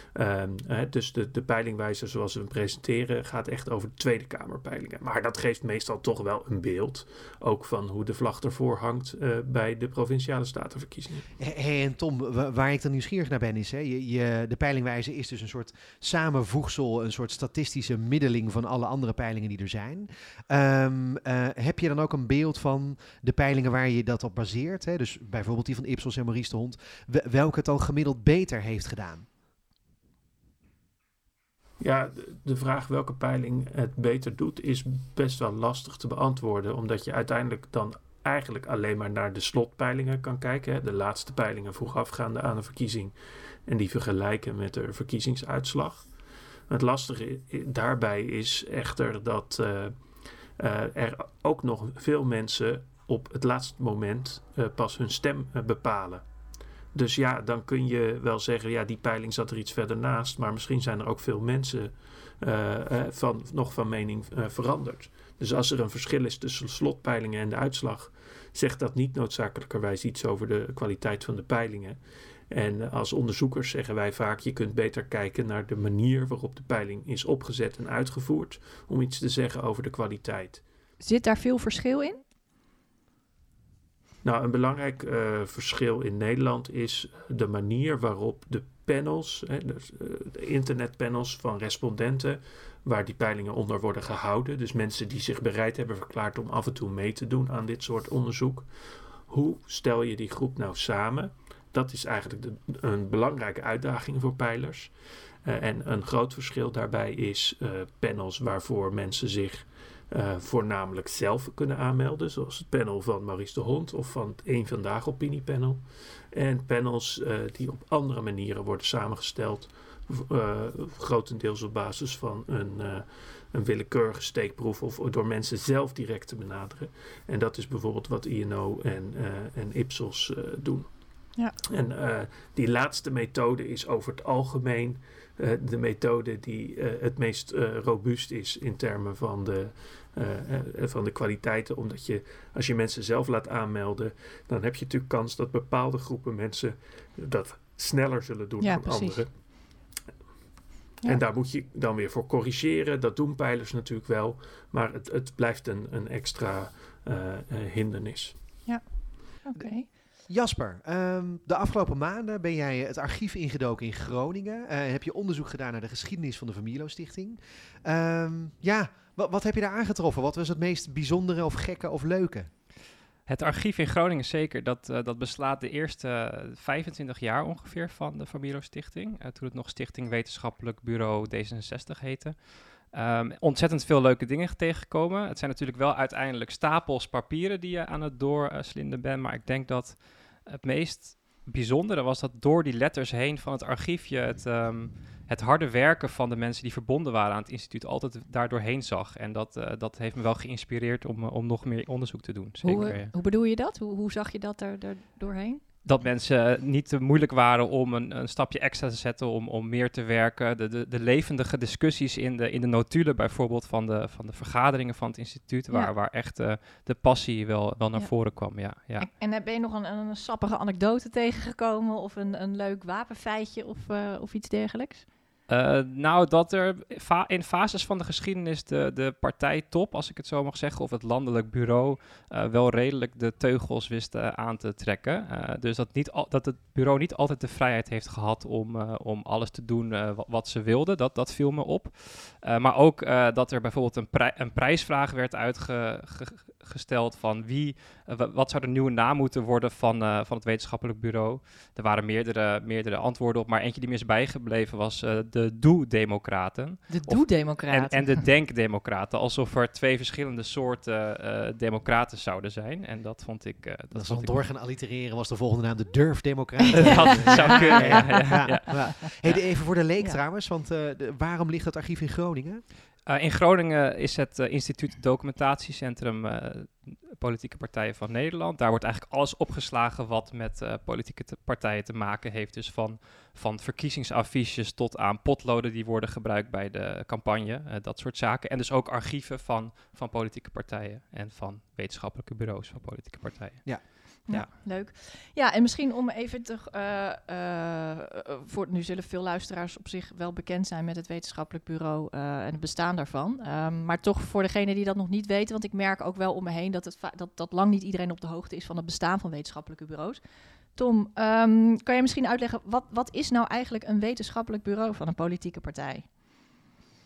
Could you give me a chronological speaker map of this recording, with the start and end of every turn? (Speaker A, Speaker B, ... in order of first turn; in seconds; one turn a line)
Speaker A: 0.1-11.3
Speaker B: 11.4-29.3
Speaker A: 31.8-43.1
Speaker A: 43.7-46.1
Speaker A: 46.7-49.9
Speaker A: 50.6-56.2
Speaker A: 56.9-72.0
Speaker A: 72.5-80.6
Speaker C: 81.0-82.2
Speaker A: 84.2-98.7
Speaker A: 99.3-104.9
Speaker A: 105.5-130.9
Speaker A: 131.6-149.7
Speaker C: 148.6-149.2
Speaker A: 151.0-158.3
Speaker C: 158.7-159.9
Speaker B: 160.2-172.5
Speaker D: 173.3-203.1
Speaker C: 202.6-205.6
Speaker D: 205.8-219.1
Speaker C: 218.0-218.4
Speaker C: 219.0-225.1
Speaker D: 225.5-264.4
Speaker C: 256.9-258.2
Speaker B: 263.9-272.6
Speaker D: 266.8-269.4
Speaker D: 273.1-294.5
Speaker C: 294.3-310.2
Speaker C: 310.8-316.1